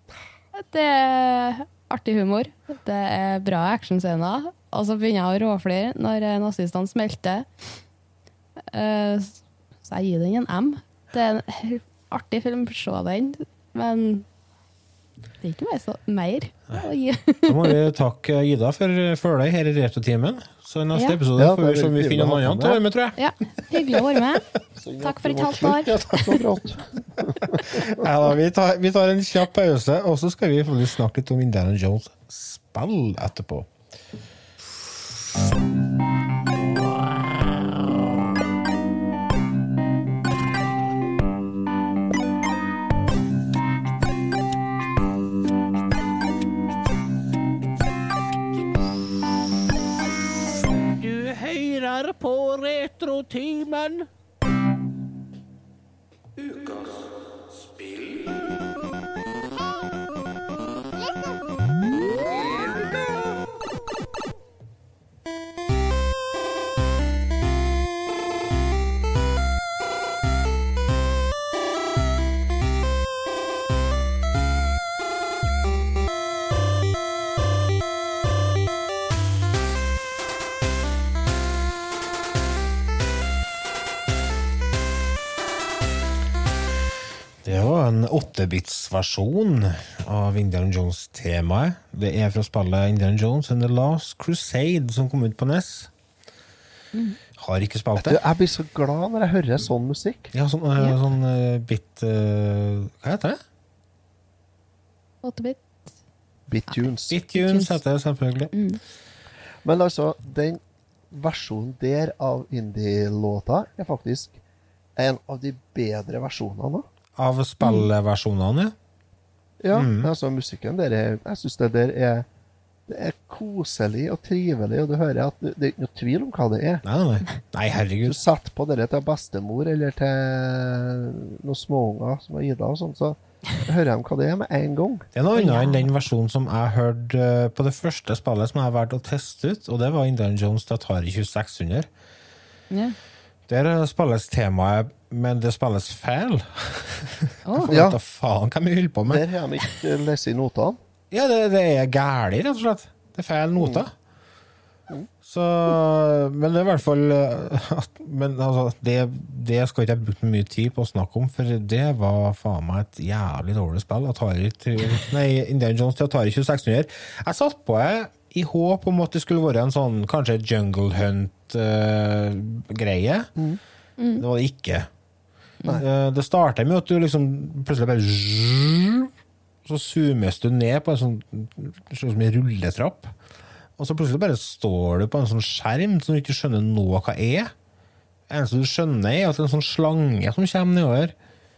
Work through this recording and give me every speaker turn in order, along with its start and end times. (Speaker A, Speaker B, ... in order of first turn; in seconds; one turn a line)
Speaker A: 0.5-7.5
Speaker A: 8.7-14.2
Speaker A: 15.4-17.8
Speaker B: 17.4-24.2
Speaker C: 21.4-22.8
Speaker A: 23.2-24.4
Speaker C: 24.8-28.0
Speaker A: 25.0-25.9
Speaker B: 27.5-33.7
Speaker B: 36.5-38.3
Speaker B: 50.8-54.1
Speaker B: 56.4-58.7
Speaker B: 62.1-63.1
Speaker B: 87.4-95.9
Speaker B: 97.4-98.2
Speaker C: 98.0-100.3
Speaker B: 100.3-103.4
Speaker A: 105.2-105.8
Speaker C: 106.5-107.2
Speaker B: 107.1-108.5
Speaker A: 107.3-107.8
Speaker A: 108.5-108.8
Speaker C: 109.6-110.6
Speaker C: 111.1-114.4
Speaker C: 115.0-116.8
Speaker B: 117.2-118.7
Speaker A: 117.6-117.8
Speaker C: 119.6-122.2
Speaker B: 119.7-120.1
Speaker C: 122.9-126.8
Speaker B: 126.8-128.2
Speaker C: 128.0-135.1
Speaker B: 135.1-141.9
Speaker A: 135.3-135.8
Speaker A: 142.7-142.9
Speaker B: 143.5-149.2
Speaker C: 147.7-147.9
Speaker C: 149.1-150.8
Speaker B: 151.1-153.9
Speaker C: 153.6-153.8
Speaker B: 155.2-173.3
Speaker B: 174.2-174.9
Speaker B: 175.8-179.1
Speaker B: 179.6-183.1
Speaker B: 183.8-187.5
Speaker B: 188.3-191.1